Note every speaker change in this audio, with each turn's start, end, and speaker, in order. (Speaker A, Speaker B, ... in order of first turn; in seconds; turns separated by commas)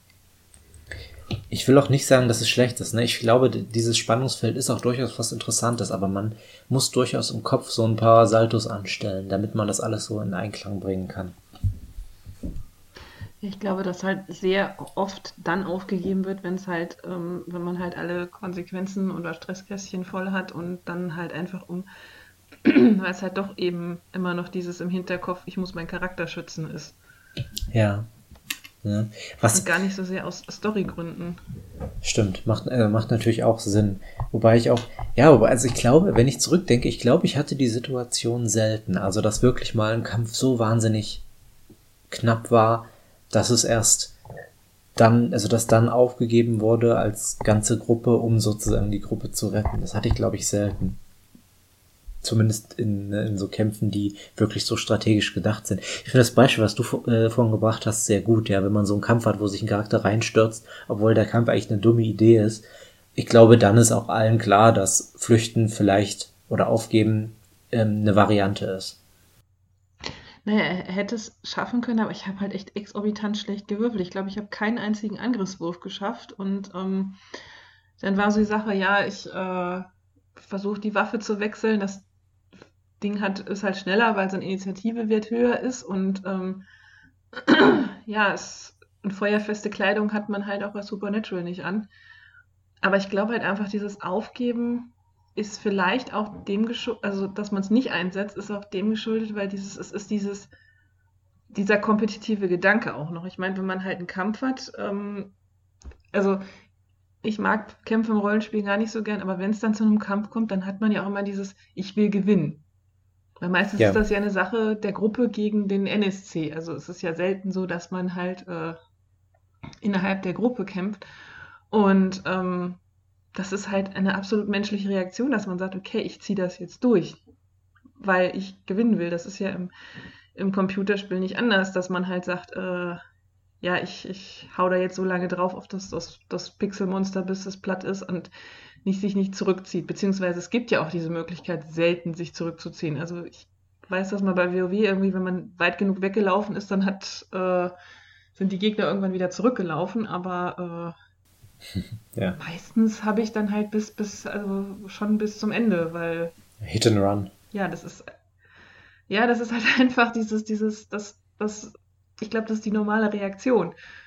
Speaker A: 1.5-11.4, Speaker B: 13.4-21.9, Speaker B: 22.6-27.0, Speaker A: 27.7-28.1, Speaker A: 28.8-29.7, Speaker B: 29.5-31.4, Speaker A: 32.0-41.2, Speaker A: 42.1-44.1, Speaker A: 45.0-51.0, Speaker A: 52.2-69.0, Speaker B: 70.4-77.2, Speaker B: 78.0-82.1, Speaker B: 83.0-86.6, Speaker B: 87.3-91.9, Speaker B: 92.8-100.5, Speaker B: 101.5-105.3, Speaker B: 106.1-106.4, Speaker B: 107.2-112.6, Speaker B: 113.4-118.8, Speaker B: 119.8-121.0, Speaker B: 121.7-122.8, Speaker B: 123.3-127.2, Speaker B: 128.0-129.7, Speaker B: 130.3-133.0, Speaker B: 133.6-138.3, Speaker B: 138.8-147.7, Speaker B: 148.4-150.9, Speaker A: 151.7-152.4, Speaker B: 152.4-156.3, Speaker A: 156.6-157.3, Speaker B: 157.5-158.1, Speaker B: 159.1-163.7